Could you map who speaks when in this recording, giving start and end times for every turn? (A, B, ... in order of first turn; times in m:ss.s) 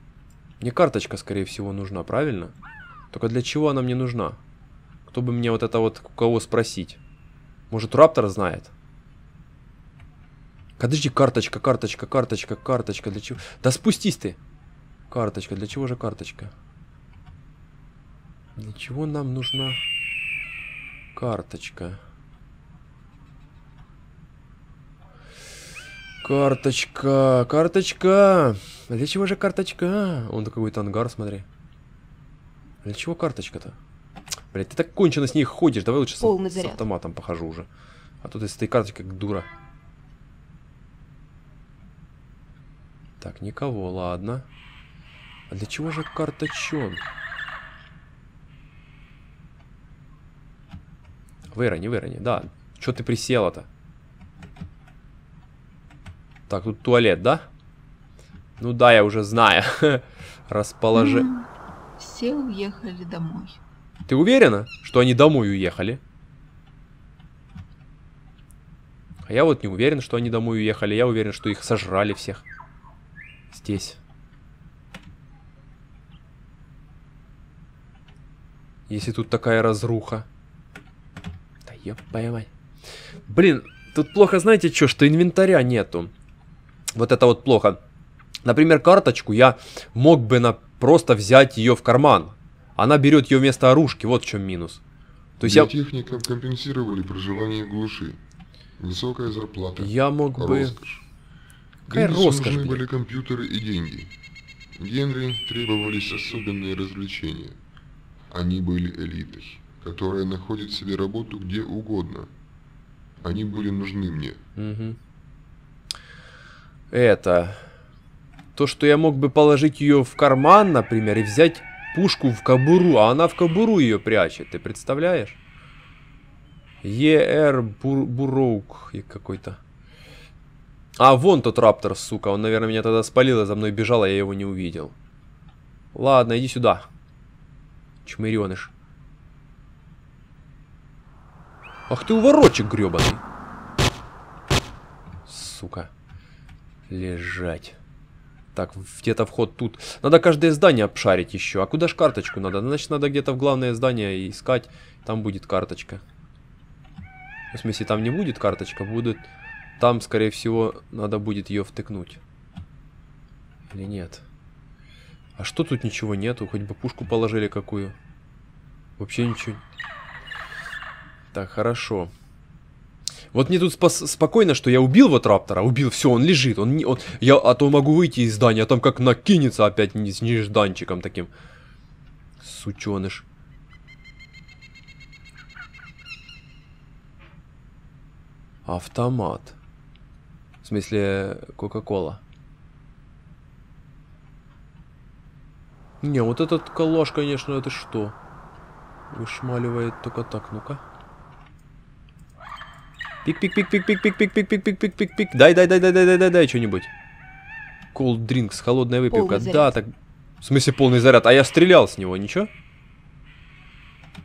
0:00.6-0:02.5 A
0:03.1-0:04.4 A
0:05.1-0:07.0 A
0:07.7-0:08.7 A
0:10.8-0:14.4 A
0:15.1-0:16.5 A
0:18.6-0:19.8 A
0:21.2-0:22.0 A
0:26.2-0:31.5 A
0:32.8-0:33.8 A
0:34.5-0:37.7 A
0:36.2-0:36.8 B
0:38.2-0:39.5 A
0:43.2-0:44.5 A
0:45.5-0:47.0 A
0:51.5-0:53.7 A
0:56.5-0:57.5 A
0:58.6-1:01.3 A
1:01.0-1:01.5 B
1:02.0-1:03.6 B
1:04.1-1:06.0 A
1:09.3-1:12.4 A
1:13.5-1:14.0 A
1:18.9-1:20.3 A
1:21.6-1:22.5 A
1:23.3-1:26.1 A
1:27.0-1:27.8 A
1:28.4-1:34.8 A
1:35.4-1:35.7 A
1:35.4-1:38.2 C
1:38.8-1:41.0 C
1:39.8-1:40.8 A
1:41.9-1:42.8 A
1:41.9-1:44.1 C
1:44.8-1:47.6 C
1:48.3-1:52.3 C
1:53.2-1:54.4 C
1:54.6-1:55.0 A
1:56.9-1:57.6 A
1:58.6-2:05.4 A
2:06.8-2:09.6 A
2:11.0-2:14.9 A
2:15.9-2:16.9 A
2:18.0-2:18.7 A
2:21.9-2:23.2 A
2:25.3-2:25.9 A
2:26.9-2:27.8 A
2:28.6-2:36.0 A
2:37.5-2:39.3 A
2:39.8-2:42.2 A
2:43.7-2:44.2 A
2:45.4-2:48.0 A
2:49.0-2:49.6 A
2:51.3-2:52.1 A
2:53.3-3:01.3 A
3:02.4-3:03.3 A
3:08.7-3:09.6 A
3:10.6-3:12.2 A
3:16.0-3:18.2 A
3:19.1-3:20.8 A
3:23.2-3:26.9 A
3:27.9-3:29.9 A
3:29.1-3:29.7 B
3:30.4-3:32.5 A